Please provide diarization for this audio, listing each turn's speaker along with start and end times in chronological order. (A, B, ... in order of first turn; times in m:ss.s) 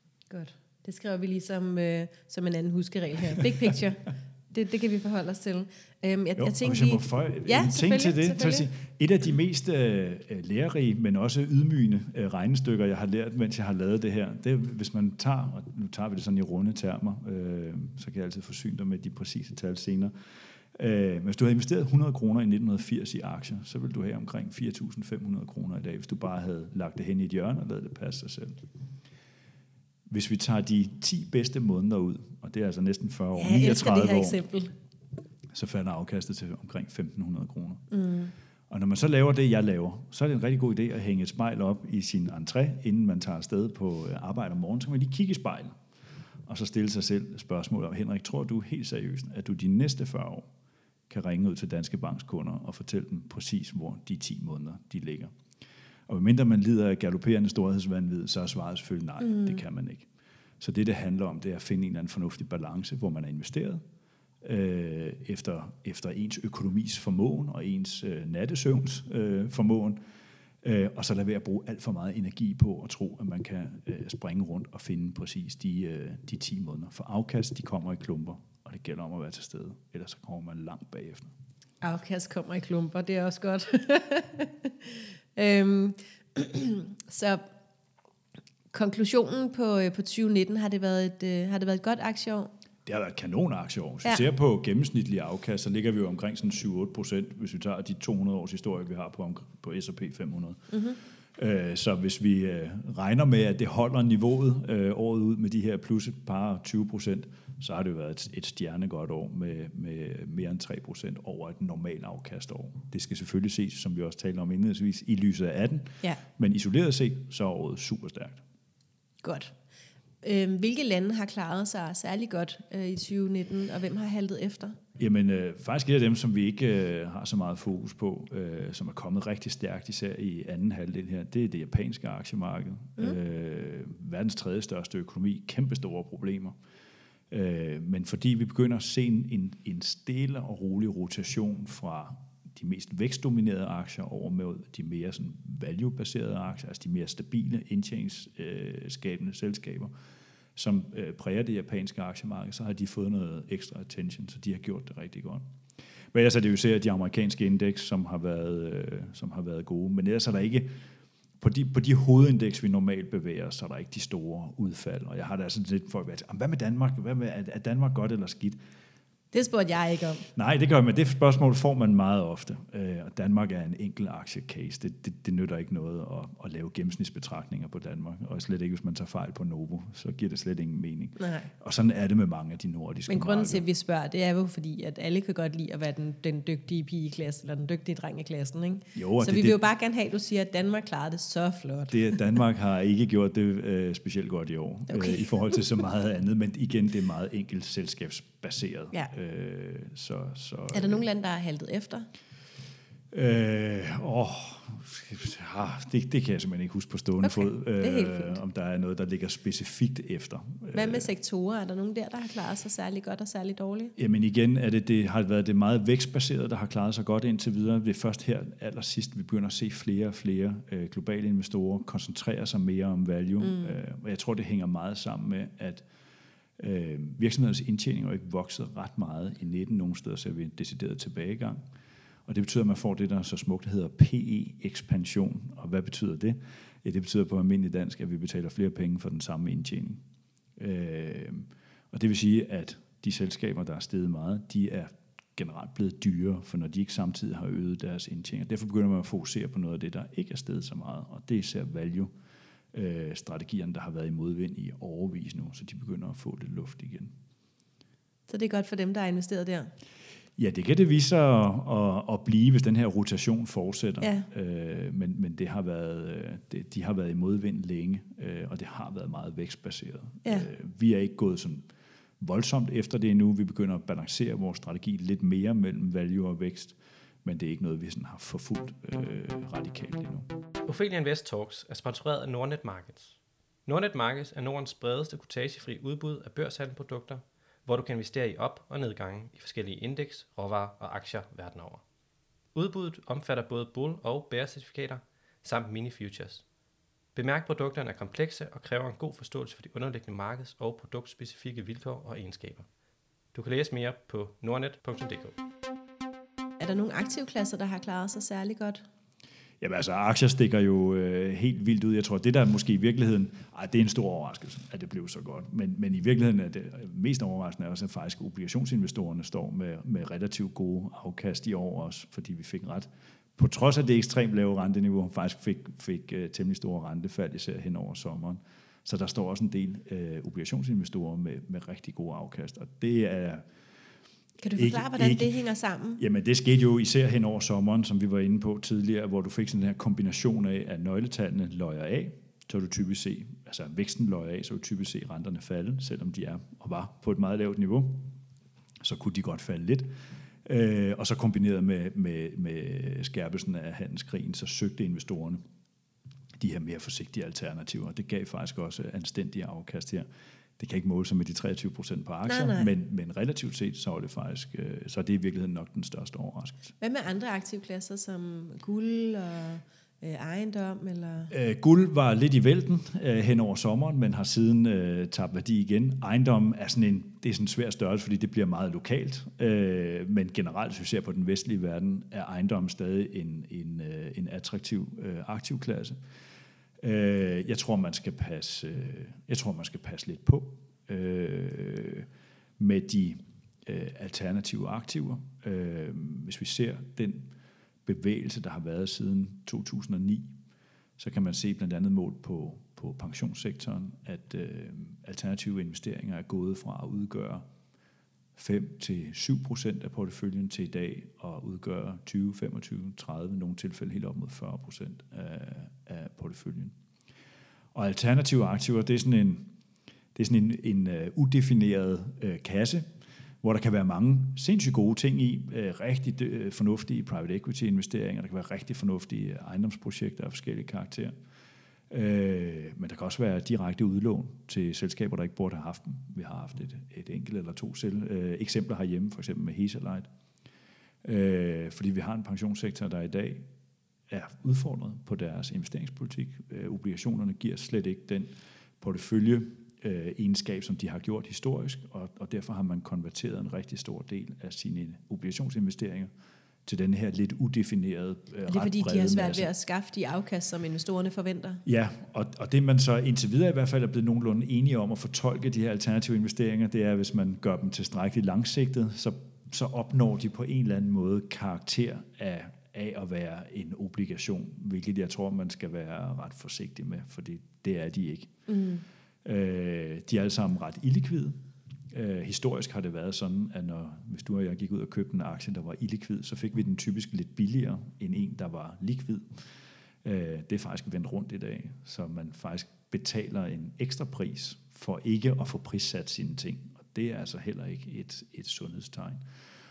0:00.3-0:08.7 A
0:06.4-0:20.1 B
0:20.8-0:28.6 B
0:30.1-0:34.4 B
0:33.4-0:34.7 A
0:35.5-0:37.8 B
0:37.9-0:38.3 A
0:38.7-0:45.8 B
0:46.5-0:50.5 B
0:51.1-0:55.4 B
0:56.1-1:00.1 B
0:59.2-0:59.6 A
1:00.6-1:03.8 B
1:04.4-1:10.0 B
1:10.6-1:21.3 B
1:21.8-1:27.5 A
1:28.7-1:32.5 A
1:32.8-1:40.8 B
1:40.7-1:41.0 A
1:41.4-1:58.4 B
1:59.2-1:59.5 A
2:00.2-2:04.8 A
2:05.0-2:16.6 B
2:17.3-2:29.9 B
2:30.6-2:35.4 B
2:36.1-2:40.7 B
2:41.4-2:48.6 B
2:49.3-2:50.3 A
2:50.4-3:03.7 B
3:01.2-3:01.5 A
3:03.1-3:12.0 A
3:08.9-3:09.6 B
3:11.9-3:21.0 B
3:14.9-3:15.3 A
3:20.7-3:22.1 A
3:23.1-3:31.1 B
3:27.2-3:28.4 A
3:30.7-3:34.0 A
3:34.0-3:45.8 B
3:43.4-3:43.8 A
3:46.6-3:51.6 B
3:52.3-4:00.0 B
4:00.6-4:12.1 B
4:12.7-4:17.1 B
4:18.3-4:19.7 A
4:20.4-4:31.7 B
4:24.0-4:24.3 A
4:32.2-4:40.3 B
4:40.6-4:51.8 C
4:52.5-4:56.5 C
4:57.1-5:02.7 C
5:03.3-5:05.4 C
5:06.6-5:08.8 A
5:09.6-5:33.4 B
5:34.4-5:36.0 A
5:34.5-5:35.3 B
5:36.0-5:48.1 B
5:48.8-5:49.9 B
5:50.4-5:55.4 B
5:56.4-6:00.1 B
6:00.6-6:06.7 B
6:02.3-6:02.7 A
6:06.8-6:11.3 A
6:11.3-6:26.0 B
6:26.8-6:32.1 B
6:32.6-6:37.3 B
6:37.8-6:40.3 B
6:41.0-6:47.4 B
6:48.4-6:56.8 B
6:57.7-6:59.5 B
7:00.2-7:02.9 B
7:03.4-7:11.1 B
7:11.9-7:20.1 B
7:21.0-7:23.5 B
7:24.1-7:36.1 B
7:36.6-7:39.5 B
7:38.5-7:41.6 A
7:41.6-7:58.3 B
7:58.5-7:58.8 A
7:59.2-8:01.4 B
8:01.9-8:09.2 B
8:10.0-8:19.2 B